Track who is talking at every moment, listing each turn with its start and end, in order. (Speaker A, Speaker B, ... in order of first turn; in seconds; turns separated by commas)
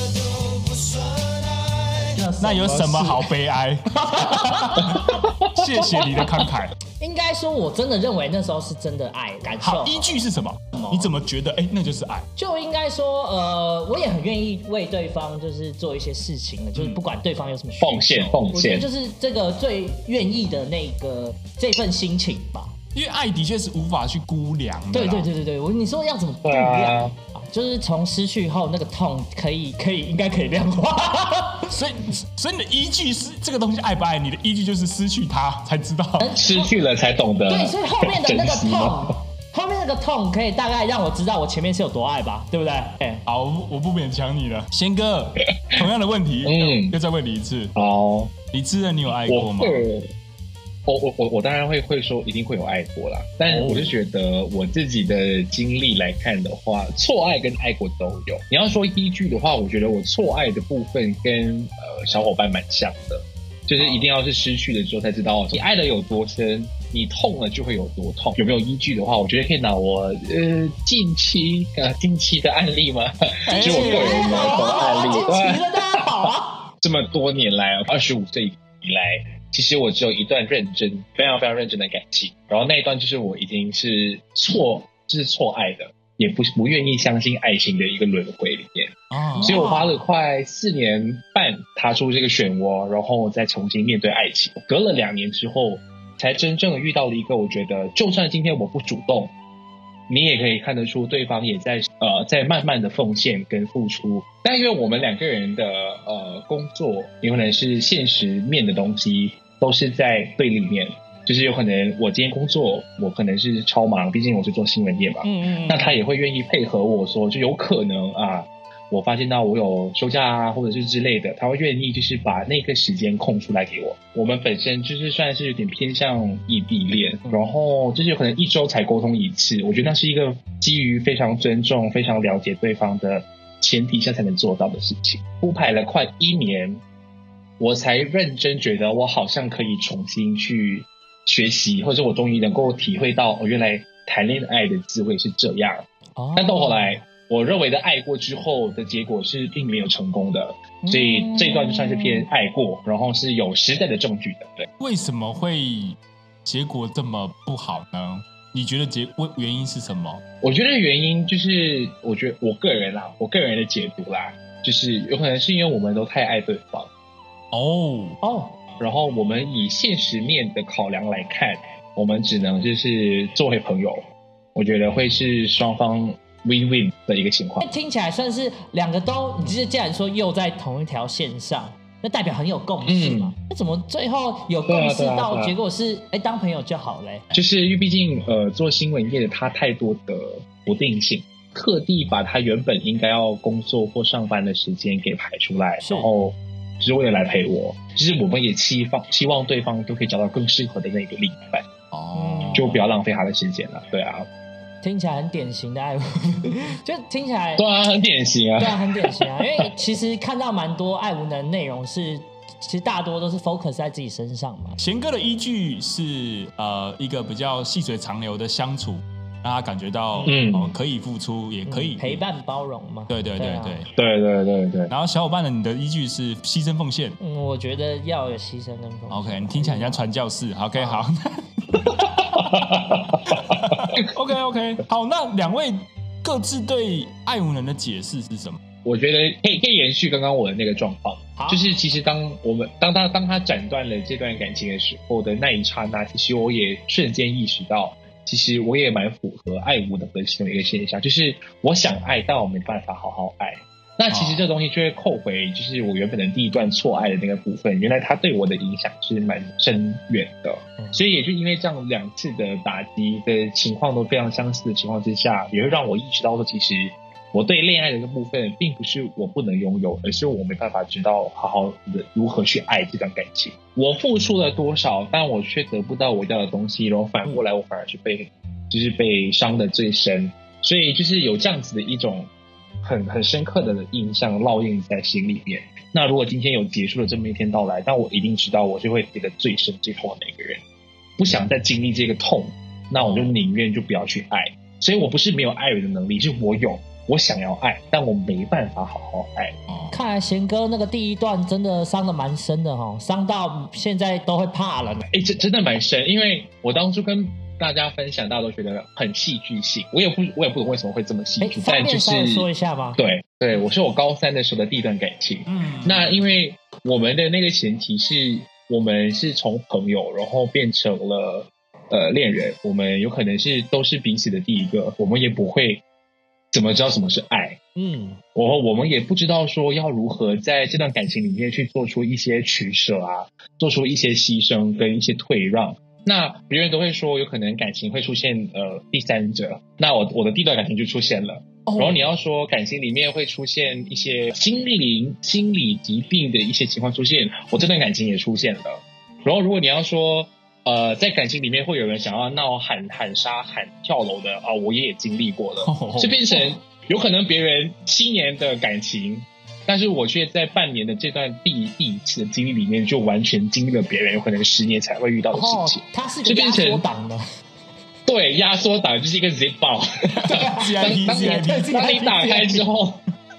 Speaker A: 2.0-3.3, Speaker B: 2.4-6.8, Speaker A: 4.0-5.1, Speaker C: 5.2-6.5, Speaker A: 7.0-10.1, Speaker B: 9.6-12.2, Speaker A: 10.8-11.1, Speaker A: 12.4-22.7, Speaker B: 16.7-17.0, Speaker C: 17.8-18.9, Speaker B: 22.9-25.3, Speaker A: 24.9-31.7, Speaker C: 26.4-27.1, Speaker B: 31.7-36.3, Speaker A: 36.2-36.7, Speaker C: 36.4-39.0, Speaker A: 37.5-43.2, Speaker B: 43.2-47.7, Speaker C: 46.4-47.0, Speaker C: 47.8-48.3, Speaker B: 48.5-49.9, Speaker C: 49.2-50.1, Speaker C: 50.9-76.2, Speaker B: 53.4-53.9, Speaker B: 73.5-74.9, Speaker A: 73.5-76.7, Speaker C: 76.8-99.3, Speaker B: 89.1-89.6, Speaker A: 89.4-90.0, Speaker C: 100.1-136.8, Speaker A: 115.2-116.0, Speaker C: 137.6-154.7, Speaker A: 146.2-147.0, Speaker A: 150.8-152.3, Speaker B: 154.8-160.2, Speaker C: 160.4-166.9, Speaker B: 167.5-168.2, Speaker A: 168.2-168.6, Speaker C: 168.8-177.7, Speaker A: 177.6-187.2, Speaker C: 182.8-183.3, Speaker C: 184.7-185.5, Speaker C: 187.3-201.7, Speaker A: 195.8-196.1, Speaker B: 201.9-202.7, Speaker A: 202.1-202.8, Speaker C: 202.5-204.2, Speaker A: 204.8-207.7, Speaker C: 207.6-209.6, Speaker A: 208.6-214.8, Speaker B: 214.8-222.2, Speaker C: 220.2-220.8, Speaker A: 221.7-223.8, Speaker B: 223.1-223.9, Speaker C: 224.0-224.9, Speaker B: 224.9-227.2, Speaker A: 227.2-230.0, Speaker B: 229.1-232.4, Speaker A: 230.8-231.0, Speaker C: 232.4-234.0, Speaker B: 233.3-238.6, Speaker C: 238.8-282.3, Speaker A: 241.4-241.6, Speaker B: 254.1-254.5, Speaker C: 282.8-290.6, Speaker C: 291.2-299.5, Speaker B: 299.7-299.9, Speaker A: 299.9-305.1, Speaker C: 305.1-325.8, Speaker A: 311.4-313.0, Speaker B: 315.5-316.3, Speaker C: 326.5-327.6, Speaker A: 327.8-328.2, Speaker C: 328.4-366.9, Speaker A: 341.6-342.0, Speaker B: 355.6-356.2, Speaker A: 365.3-367.2, Speaker C: 368.1-373.0, Speaker B: 370.2-371.8, Speaker A: 370.2-372.6